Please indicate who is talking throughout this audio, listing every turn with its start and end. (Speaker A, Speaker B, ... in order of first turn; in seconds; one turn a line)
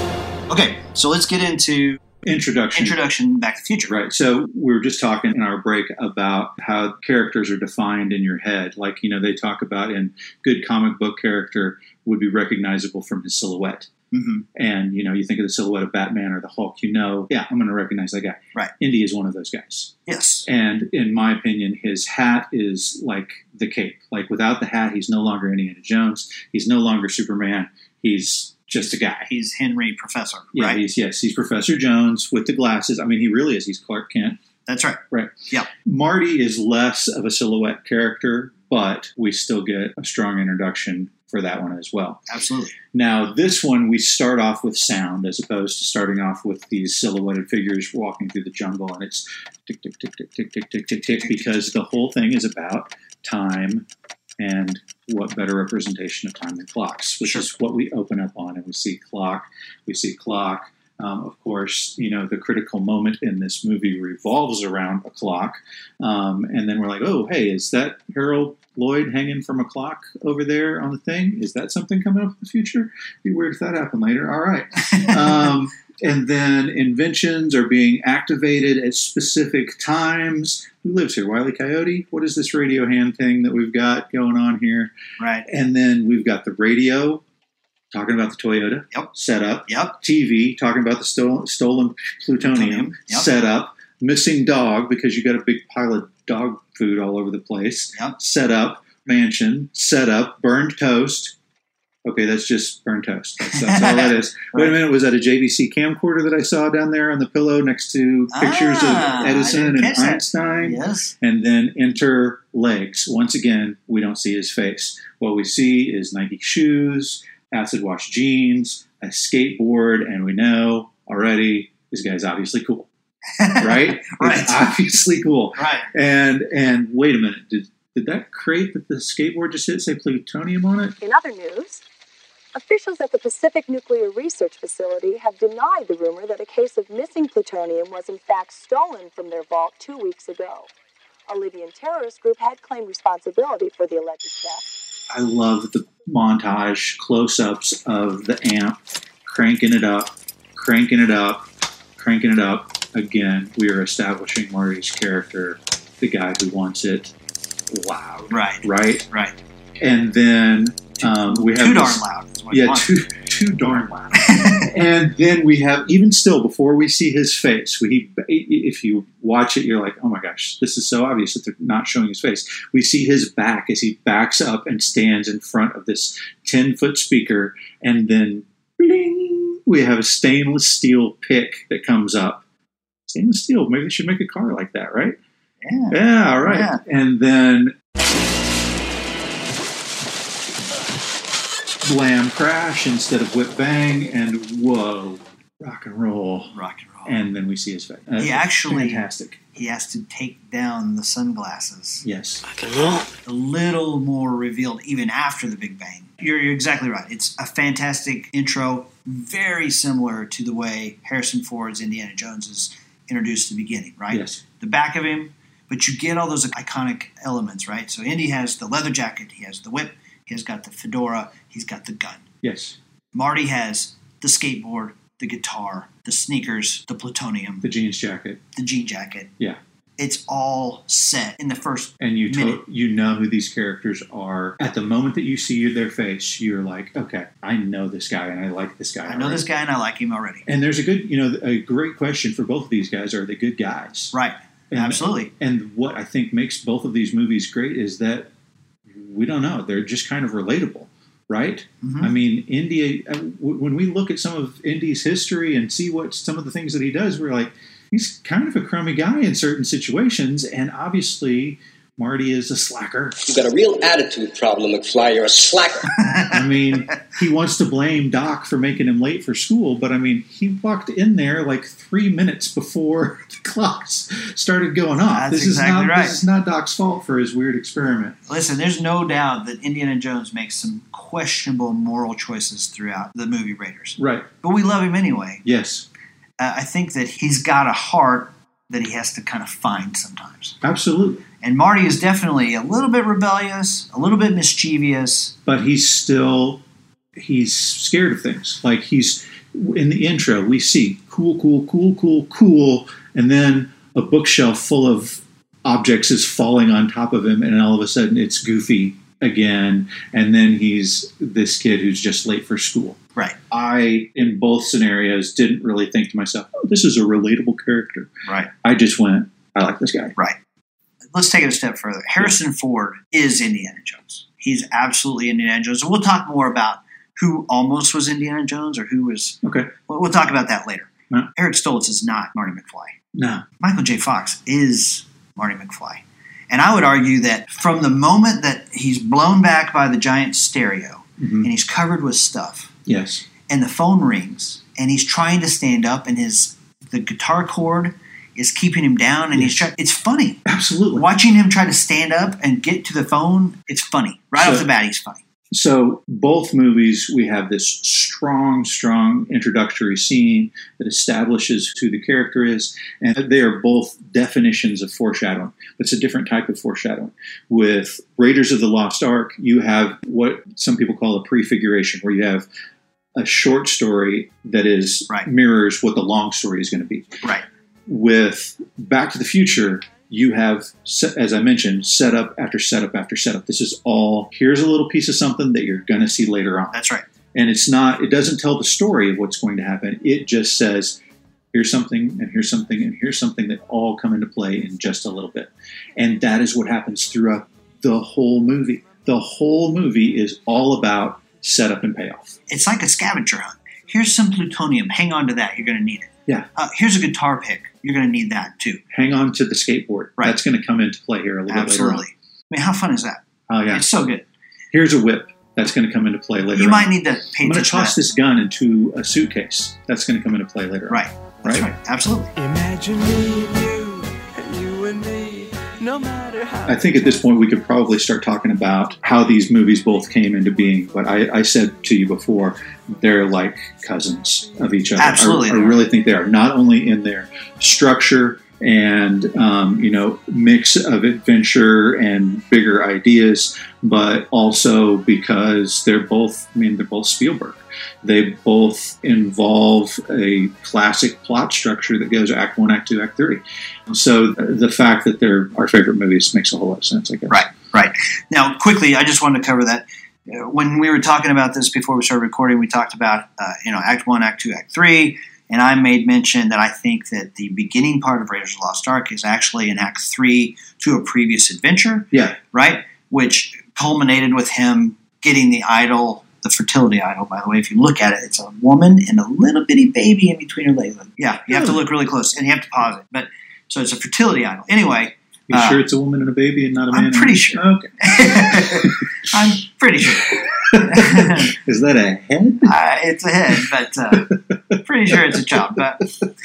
Speaker A: 0.5-2.0
Speaker B: 2.2-3.0
Speaker A: 2.7-3.9
Speaker B: 3.9-13.9
Speaker A: 14.1-14.4
Speaker B: 14.5-19.9
Speaker A: 20.1-20.5
Speaker B: 20.4-29.3
Speaker A: 29.3-30.8
Speaker B: 30.5-34.4
Speaker A: 34.6-35.7
Speaker B: 35.1-42.2
Speaker A: 42.3-42.7
Speaker B: 42.9-53.9
Speaker B: 54.4-84.9
Speaker A: 74.9-75.3
Speaker A: 85.2-85.5
Speaker B: 85.5-87.2
Speaker B: 87.9-101.3
Speaker A: 89.7-90.0
Speaker A: 92.4-93.3
Speaker B: 102.0-122.9
Speaker A: 103.5-104.8
Speaker A: 108.3-111.1
Speaker A: 123.4-124.7
Speaker B: 123.6-131.0
Speaker A: 125.6-125.9
Speaker C: 131.0-131.8
Speaker C: 132.5-140.7
Speaker C: 141.3-144.7
Speaker B: 145.1-157.1
Speaker B: 157.7-159.1
Speaker A: 158.3-159.3
Speaker B: 159.8-182.4
Speaker A: 161.0-162.9
Speaker A: 164.2-164.7
Speaker B: 183.1-185.2
Speaker A: 185.6-186.8
Speaker B: 185.9-187.7
Speaker B: 191.8-199.4
Speaker A: 196.5-197.2
Speaker A: 198.2-202.0
Speaker B: 202.0-202.4
Speaker A: 203.2-222.2
Speaker B: 214.1-214.4
Speaker B: 222.4-222.8
Speaker A: 223.1-227.6
Speaker B: 227.6-228.4
Speaker A: 228.6-229.3
Speaker A: 230.0-232.6
Speaker B: 232.0-239.5
Speaker A: 239.1-240.4
Speaker B: 240.4-244.1
Speaker A: 244.1-245.3
Speaker B: 244.7-248.3
Speaker B: 248.9-263.2
Speaker A: 251.8-252.1
Speaker D: 263.3-265.9
Speaker A: 266.0-266.4
Speaker B: 266.3-278.2
Speaker A: 275.1-276.2
Speaker A: 278.3-285.4
Speaker B: 284.0-284.3
Speaker B: 285.4-285.9
Speaker A: 286.4-290.6
Speaker B: 290.6-291.2
Speaker A: 291.4-295.3
Speaker B: 295.4-296.6
Speaker B: 297.1-313.0
Speaker B: 313.5-318.1
Speaker B: 318.6-320.1
Speaker A: 321.1-332.9
Speaker B: 329.4-329.7
Speaker B: 333.1-333.4
Speaker A: 333.6-342.7
Speaker B: 341.2-341.5
Speaker B: 342.9-343.2
Speaker A: 343.5-350.4
Speaker B: 350.4-351.1
Speaker A: 350.9-355.2
Speaker B: 354.4-354.6
Speaker B: 355.5-372.5
Speaker B: 373.1-377.2
Speaker B: 377.9-386.8
Speaker A: 386.7-387.0
Speaker B: 387.3-391.0
Speaker B: 391.5-402.4
Speaker A: 402.5-408.8
Speaker B: 408.9-412.0
Speaker A: 411.5-414.3
Speaker B: 413.5-413.9
Speaker B: 414.7-421.7
Speaker A: 416.5-418.0
Speaker A: 420.9-422.3
Speaker E: 422.4-427.0
Speaker B: 426.6-457.4
Speaker A: 435.0-435.8
Speaker A: 457.3-485.8
Speaker B: 472.1-472.4
Speaker B: 481.5-481.8
Speaker B: 485.5-489.0
Speaker A: 486.9-491.5
Speaker B: 490.7-492.7
Speaker A: 492.6-496.1
Speaker B: 494.3-495.4